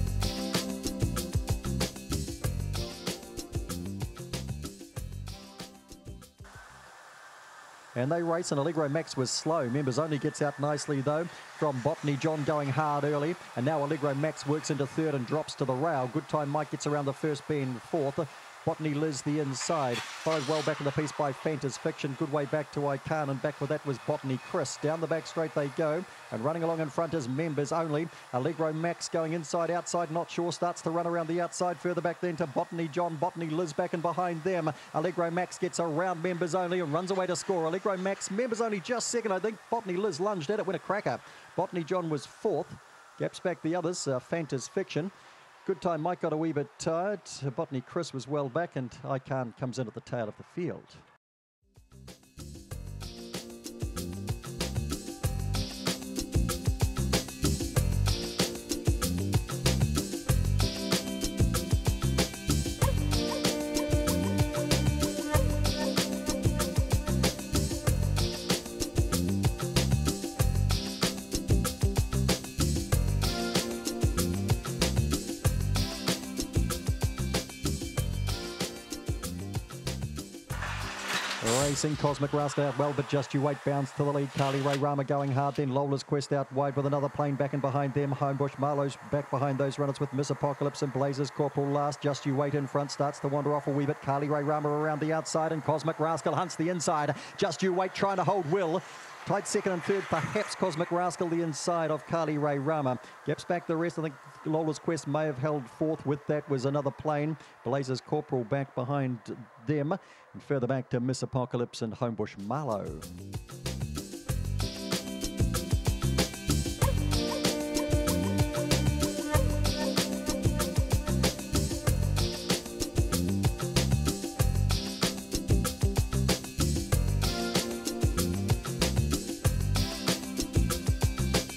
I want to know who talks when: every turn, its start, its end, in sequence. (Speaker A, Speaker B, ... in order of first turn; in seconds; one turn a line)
Speaker A: 8.0-45.1
Speaker A: 45.6-51.0
Speaker A: 81.4-113.1